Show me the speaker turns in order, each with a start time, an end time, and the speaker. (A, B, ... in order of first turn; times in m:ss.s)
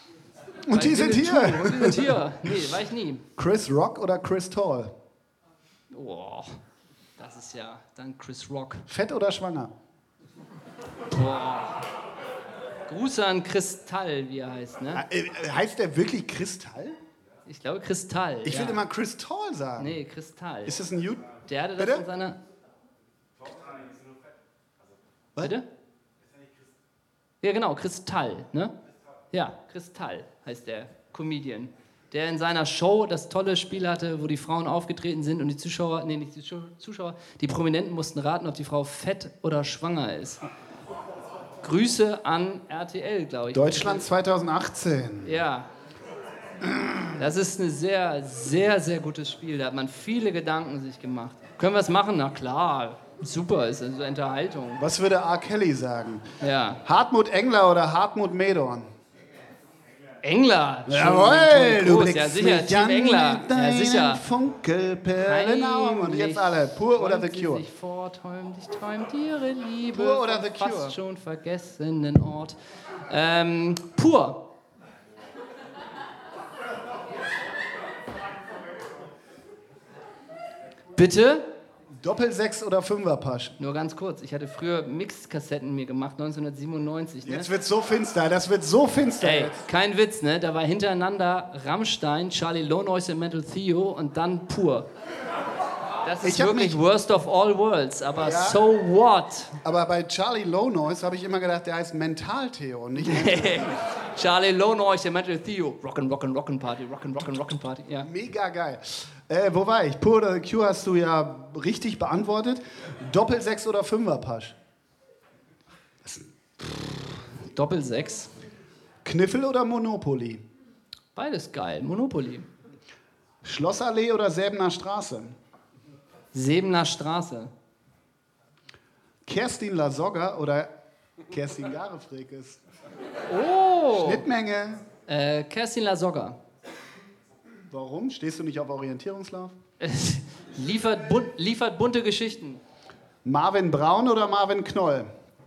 0:00.7-0:02.5 A
0:00.7-0:03.2 B
0:03.4-0:04.9 A
0:05.9-0:06.6 B
0:07.2-0:08.8 B
0:08.9-0:09.7 A
0:11.1-0:11.8 B
0:12.9-0:15.0 B
0:14.9-0:17.0 A
0:17.4-0:18.8 B
0:18.4-0:20.0 A
0:19.8-0:20.8 B
0:20.6-0:22.0 A
0:21.4-0:22.4 B
0:25.4-0:25.6 B
0:27.4-0:28.7 B
0:29.3-0:40.4 B
0:41.6-0:44.0 B
0:43.5-0:45.4 A
0:45.2-0:45.7 B
0:46.6-0:47.3 A
0:47.2-0:54.8 B
0:54.8-0:56.3 A
0:56.4-0:56.8 B
0:56.8-0:58.9 A
1:00.2-1:04.2 B
1:00.8-1:07.6 A
1:05.2-1:12.6 B
1:09.9-1:11.0 A
1:13.1-1:14.4 B
1:21.0-1:21.4 B
1:22.0-1:23.6 A
1:23.6-1:27.5 B
1:27.2-1:29.7 A
1:29.2-1:34.9 B
1:36.0-1:39.5 B
1:36.2-1:36.8 A
1:38.2-1:38.6 A
1:39.6-1:43.8 A
1:43.0-1:48.1 B
1:48.0-1:54.6 A
1:56.0-1:57.0 A
1:57.5-1:58.3 B
1:59.0-2:00.4 A
2:01.1-2:02.5 B
2:03.4-2:05.3 A
2:06.3-2:07.5 B
2:09.2-2:10.7 A
2:11.3-2:12.6 A
2:13.3-2:14.2 B
2:13.9-2:14.8 A
2:15.1-2:16.4 B
2:17.7-2:19.5 A
2:19.8-2:22.6 B
2:23.2-2:25.1 A